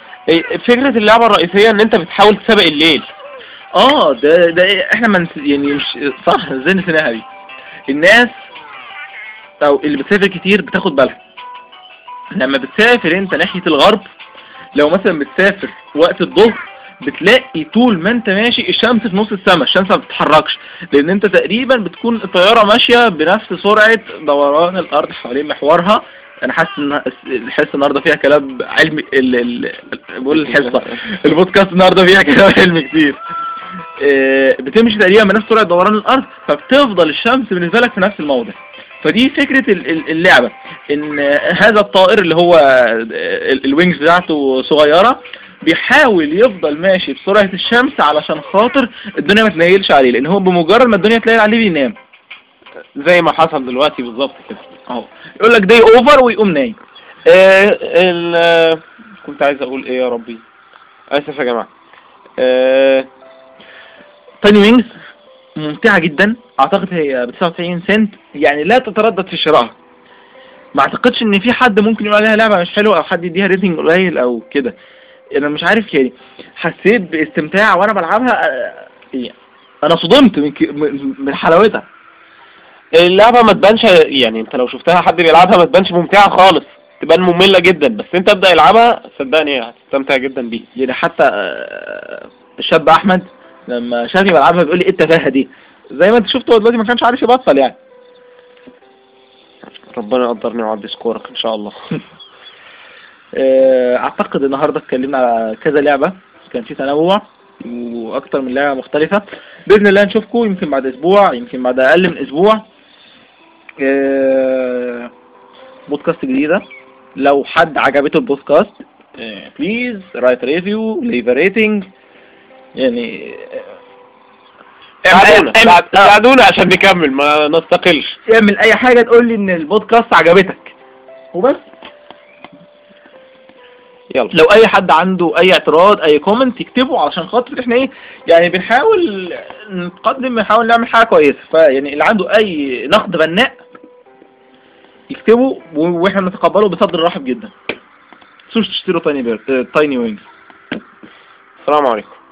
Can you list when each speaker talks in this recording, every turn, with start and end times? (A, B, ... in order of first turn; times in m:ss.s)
0:00.3-0:03.0 A
0:03.7-0:07.2 B
0:07.9-0:08.3 B
0:09.6-0:11.2 B
0:12.3-0:14.0 B
0:14.7-0:33.2 B
0:30.5-0:30.9 A
0:34.0-0:52.0 B
0:53.0-0:54.6 A
0:54.9-0:56.8 B
0:57.2-1:00.4 A
1:01.1-1:01.7 A
1:02.4-1:03.1 A
1:04.4-1:04.9 B
1:05.6-1:09.7 B
1:10.8-1:14.7 B
1:15.4-1:19.3 B
1:19.8-1:21.8 B
1:23.0-1:30.6 A
1:30.8-1:37.8 B
1:39.9-1:41.8 A
1:43.3-1:52.6 B
1:53.8-1:55.1 B
1:55.9-1:56.6 B
1:57.2-2:01.9 B
2:02.8-2:03.7 B
2:05.0-2:08.2 A
2:05.1-2:06.1 B
2:08.3-2:10.7 B
2:11.3-2:11.6 B
2:14.3-2:23.6 B
2:25.1-2:27.5 B
2:28.5-2:30.2 B
2:31.6-2:32.1 A